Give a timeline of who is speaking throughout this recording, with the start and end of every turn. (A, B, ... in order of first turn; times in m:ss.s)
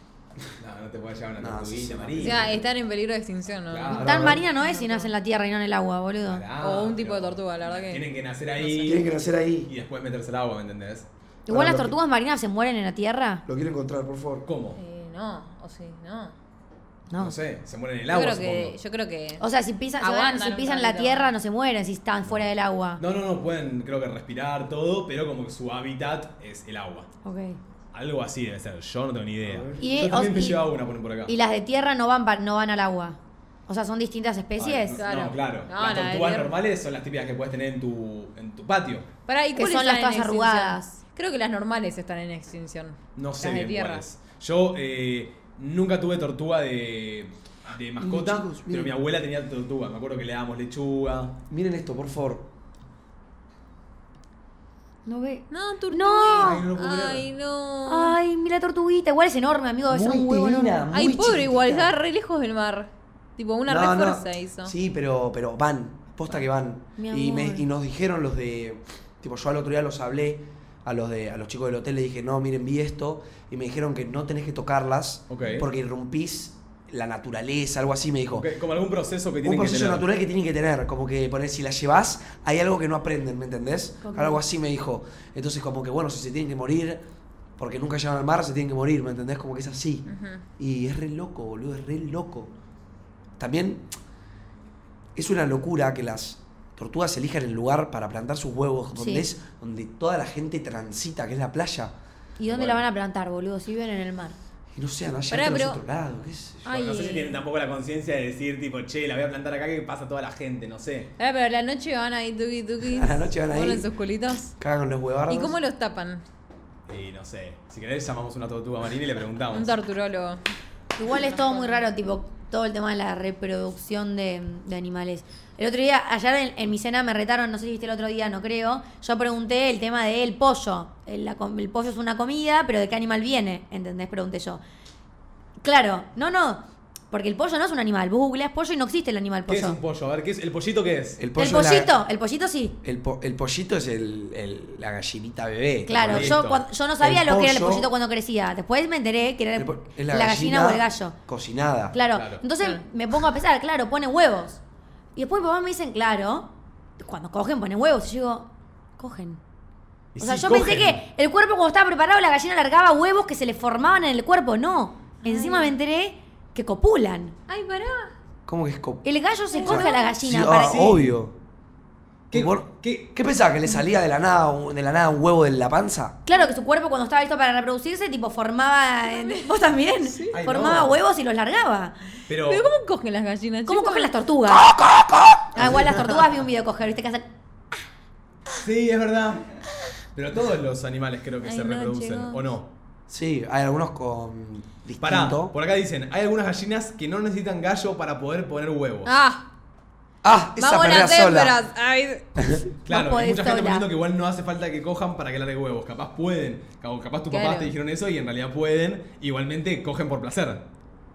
0:00.6-0:02.6 A
0:01.4-0:02.6 B
0:02.2-0:04.0 C
0:03.7-0:04.4 A
0:03.9-0:06.4 D
0:04.0-0:04.4 B
0:04.6-0:05.1 C
0:06.2-0:09.1 A
0:06.6-0:08.0 C
0:08.6-0:09.0 C
0:08.8-0:09.7 B
0:09.6-0:11.1 A
0:11.5-0:13.4 D
0:11.5-0:12.0 B
0:13.4-0:14.4 B
0:14.4-0:14.8 A
0:14.8-0:16.3 C
0:17.1-0:17.4 D
0:17.2-0:18.7 A
0:18.1-0:19.4 C
0:19.4-0:23.0 D
0:20.0-0:21.3 C
0:23.0-0:27.1 A
0:27.2-0:27.6 D
0:27.9-0:31.3 A
0:29.5-0:30.0 B
0:29.8-0:30.6 D
0:31.2-0:35.0 D
0:34.6-0:39.0 A
0:35.0-0:36.5 C
0:39.3-0:44.0 C
0:39.5-0:40.8 D
0:43.2-0:51.4 A
0:48.0-0:49.0 B
0:51.5-0:52.5 B
0:55.0-0:56.6 D
0:55.5-0:58.2 C
0:56.4-0:57.2 A
0:57.9-1:00.9 D
0:59.9-1:01.9 B
1:00.9-1:04.7 C
1:03.7-1:18.5 B
1:07.0-1:07.6 D
1:15.3-1:15.7 A
1:18.3-1:20.0 A
1:19.4-1:27.0 B
1:24.0-1:24.4 D
1:27.6-1:32.5 B
1:30.1-1:30.4 C
1:33.4-1:33.9 B
1:35.2-1:41.9 B
1:39.0-1:39.2 D
1:42.4-1:44.4 D
1:42.5-1:42.8 A
1:44.7-1:46.6 B
1:45.3-1:45.8 C
1:46.6-1:51.1 A
1:46.7-1:47.4 C
1:51.2-1:54.5 C
1:52.9-1:53.9 B
1:54.6-1:55.6 B
1:55.3-1:56.2 C
1:56.9-1:59.7 A
1:59.5-2:00.4 C
2:00.9-2:14.6 D
2:01.1-2:01.9 C
2:15.6-2:19.8 D
2:19.5-2:21.2 A
2:21.2-2:21.9 B
2:21.4-2:22.8 D
2:22.8-2:26.4 B
2:25.8-2:31.1 D
2:26.0-2:26.6 A
2:27.0-2:27.9 B
2:29.5-2:32.0 B
2:31.9-2:34.6 D
2:32.1-2:32.4 A
2:35.1-2:39.4 D
2:40.1-2:41.0 A
2:40.2-2:47.3 D
2:45.2-2:45.8 C
2:47.5-2:48.1 C
2:48.5-2:49.0 B
2:49.0-2:50.9 D
2:49.5-2:50.1 C
2:49.6-2:51.4 B
2:50.6-2:51.1 A
2:52.3-2:53.1 A
2:52.3-2:56.2 B
2:56.2-3:02.0 D
2:59.0-3:00.3 C
3:00.3-3:01.0 A
3:02.3-3:02.6 A
3:02.4-3:04.1 C
3:03.7-3:04.7 D
3:04.5-3:05.6 B
3:05.5-3:07.3 D
3:05.6-3:06.0 A
3:08.6-3:09.4 A
3:10.1-3:12.7 A
3:11.4-3:12.4 C
3:13.1-3:15.5 B
3:15.0-3:19.1 A
3:19.0-3:19.5 C
3:20.2-3:21.6 B
3:20.6-3:22.2 C
3:22.8-3:30.6 A
3:22.9-3:23.9 D
3:27.3-3:27.7 C